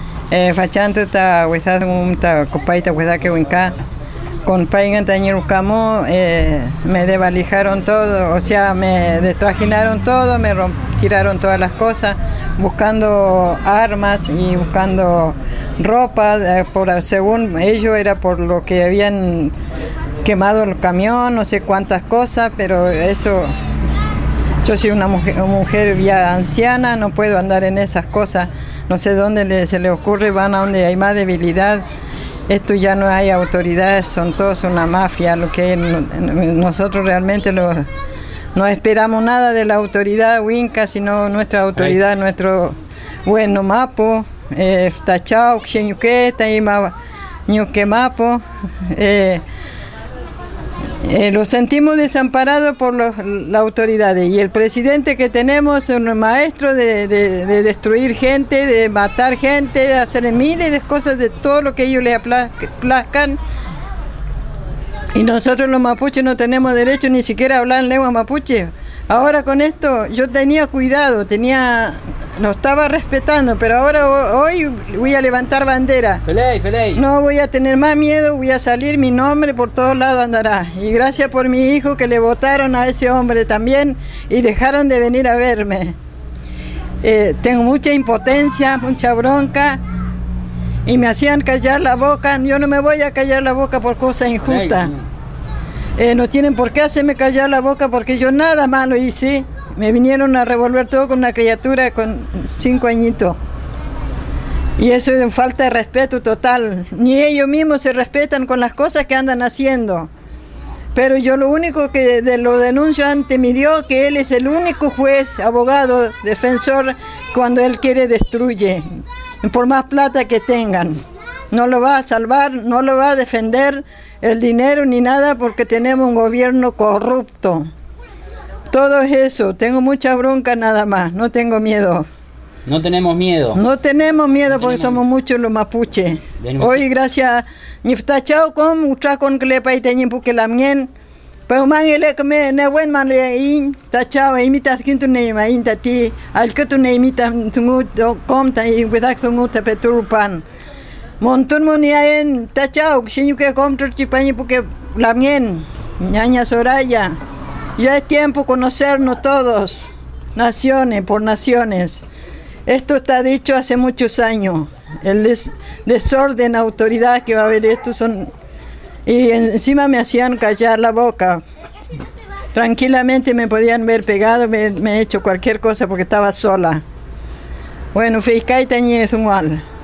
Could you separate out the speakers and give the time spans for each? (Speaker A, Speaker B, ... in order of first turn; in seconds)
Speaker A: 0.3-3.7, 4.4-19.5, 20.2-23.5, 24.6-31.8, 32.5-37.9, 38.5-46.9, 47.5-49.4, 51.0-63.4, 65.1-76.2, 76.9-86.0, 87.0-89.8, 90.8-94.9, 96.0-103.4, 104.8-110.1, 110.9-127.7, 128.7-132.1, 133.5-140.9, 141.5-150.4, 151.2-157.1, 157.8-162.0, 162.7-168.3, 169.1-171.4, 172.5-176.8, 177.9-179.6
Speaker B: 76.2-77.0, 94.5-95.0, 132.7-133.6, 134.5-135.0, 136.4-136.8